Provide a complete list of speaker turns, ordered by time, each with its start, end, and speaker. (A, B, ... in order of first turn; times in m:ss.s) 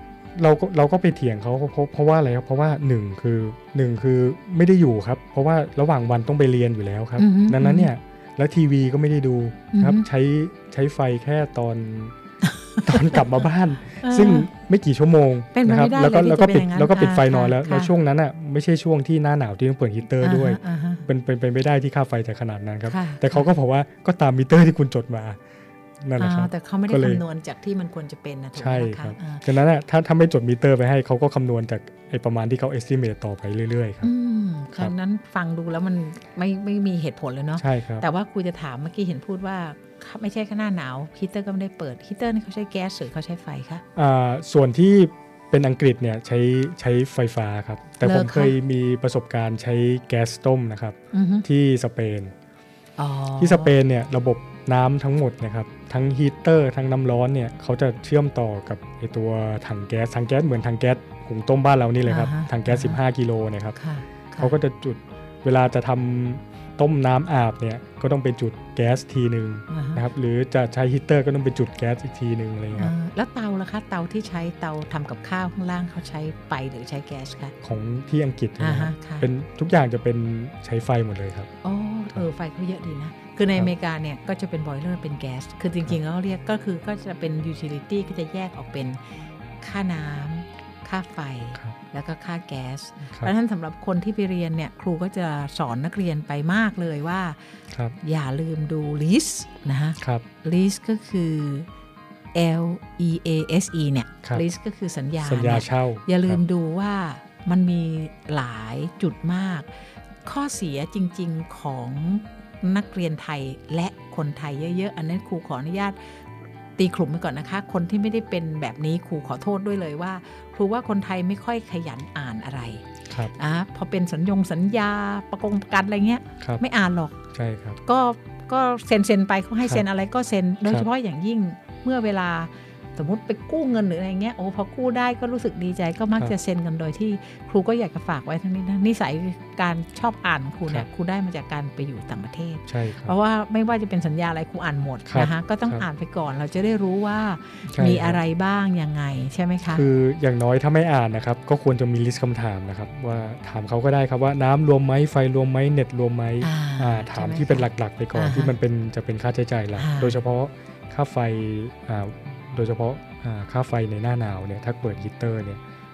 0:00.3-0:12.1 A
0:07.2-0:07.9 B
0:09.7-0:10.0 B
0:12.4-0:13.3 B
0:12.8-0:25.4 A
0:14.0-0:14.5 B
0:15.5-0:17.9 B
0:20.2-0:21.0 B
0:22.9-0:23.5 B
0:26.0-0:27.2 A
0:26.2-0:29.4 B
0:28.6-0:34.1 A
0:34.0-0:43.8 B
0:37.6-0:38.0 A
0:44.0-0:52.3 A
0:48.0-0:48.5 B
0:51.1-0:51.4 B
0:53.0-0:53.7 B
0:53.4-1:03.8 A
1:02.0-1:03.0 B
1:03.8-1:04.5 B
1:04.4-1:12.9 A
1:09.7-1:10.0 B
1:12.7-1:17.5 B
1:17.6-1:21.5 A
1:18.6-1:19.3 B
1:21.6-1:29.0 B
1:29.6-1:41.7 B
1:40.0-1:40.2 A
1:42.3-1:49.7 B
1:45.2-1:46.4 A
1:50.2-1:56.0 B
1:56.8-2:07.2 B
2:07.3-2:07.8 A
2:07.8-2:29.8 B
2:22.7-2:23.1 A
2:25.1-2:25.8 A
2:27.7-2:28.2 A
2:29.7-2:45.6 A
2:36.4-2:38.5 B
2:39.8-2:40.2 B